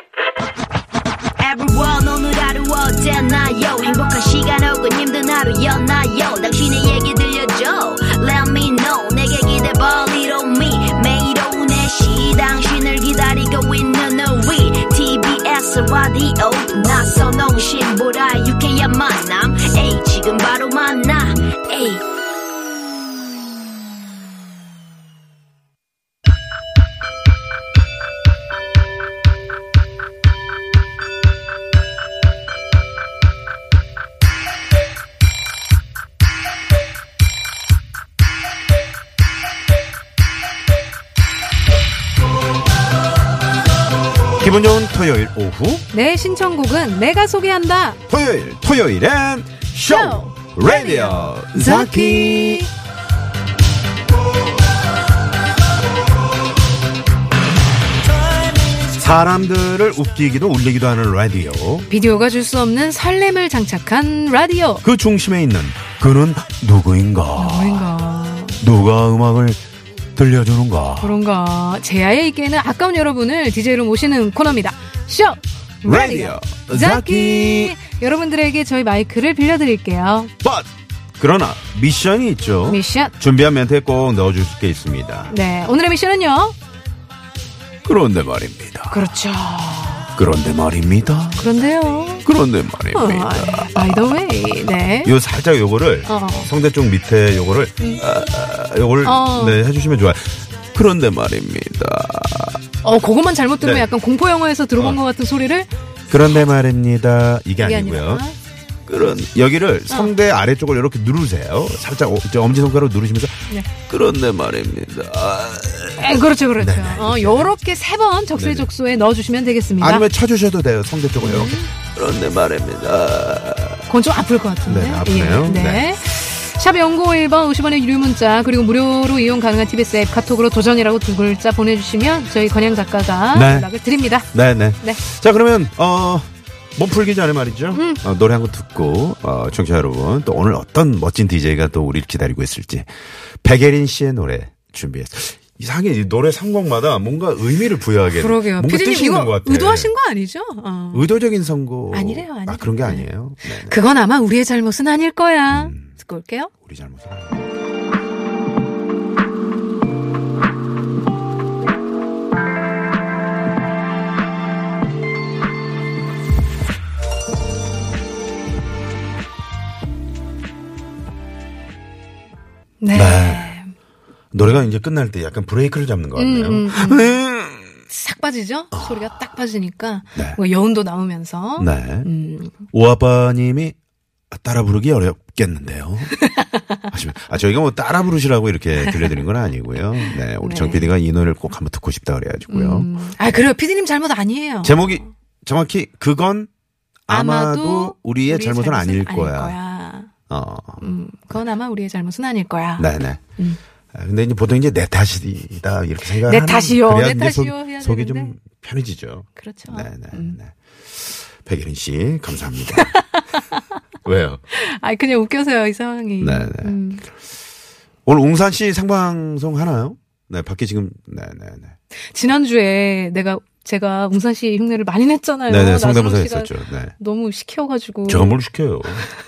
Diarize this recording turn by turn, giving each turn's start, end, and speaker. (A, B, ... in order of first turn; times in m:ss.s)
0:01.4-0:22.0 A
0:44.4-0:45.8 B
0:45.9-0:48.0 C
0:48.1-0:52.7 B
0:49.8-0:52.7 C
0:59.0-1:01.9 B
1:01.9-1:04.8 C
1:04.8-1:07.9 B
1:07.4-1:08.6 C
1:08.6-1:09.6 B
1:10.1-1:11.2 B
1:11.0-1:20.3 C
1:15.8-1:17.7 B
1:20.4-1:25.3 B
1:22.6-1:23.1 C
1:25.3-1:26.5 C
1:27.8-1:29.0 B
1:28.9-1:30.1 C
1:30.2-1:31.4 B
1:31.4-1:32.3 C
1:32.2-1:33.9 B
1:32.9-1:35.1 C
1:35.0-1:42.6 B
1:36.0-1:36.5 C
1:39.0-1:39.6 C
1:42.8-1:45.7 C
1:43.6-1:43.9 B
1:44.8-1:45.0 B
1:46.1-1:48.2 B
1:47.6-1:48.4 C
1:48.8-1:57.5 B
1:49.9-1:50.1 C
1:56.0-2:00.1 C
1:58.4-1:58.7 B
1:59.8-2:03.9 B
2:01.2-2:01.7 C
2:03.9-2:14.3 C
2:04.7-2:05.9 B
2:13.3-2:13.7 B
2:14.3-2:22.9 B
2:17.7-2:18.0 C
2:23.4-2:29.9 B
2:28.1-2:31.1 C
2:30.9-2:33.8 B
2:31.9-2:36.5 C
2:35.5-2:35.9 B
2:36.6-2:37.5 B
2:52.8-2:53.7 C
2:52.9-2:53.5 B
2:54.3-2:57.8 B
2:56.2-2:57.2 C
2:57.9-3:02.6 C
2:58.7-2:59.1 B
3:01.6-3:02.1 B
3:02.7-3:03.7 B
3:04.3-3:06.2 B
3:06.2-3:06.8 C
3:06.9-3:12.9 B
3:10.4-3:10.9 C
3:12.5-3:14.8 C
3:14.6-3:16.5 B
3:17.1-3:19.6 B
3:17.1-3:20.1 C
3:20.3-3:20.8 B
3:20.8-3:23.6 C
3:22.8-3:23.2 B
3:23.9-3:33.0 B
3:26.2-3:28.3 C
3:29.3-3:30.4 C
3:32.7-3:33.6 C
3:34.0-3:34.4 B
3:34.5-3:37.0 C
3:36.2-3:36.8 B
3:38.0-3:41.7 B
3:42.1-3:48.4 C
3:45.5-3:46.9 B
3:48.1-3:49.0 B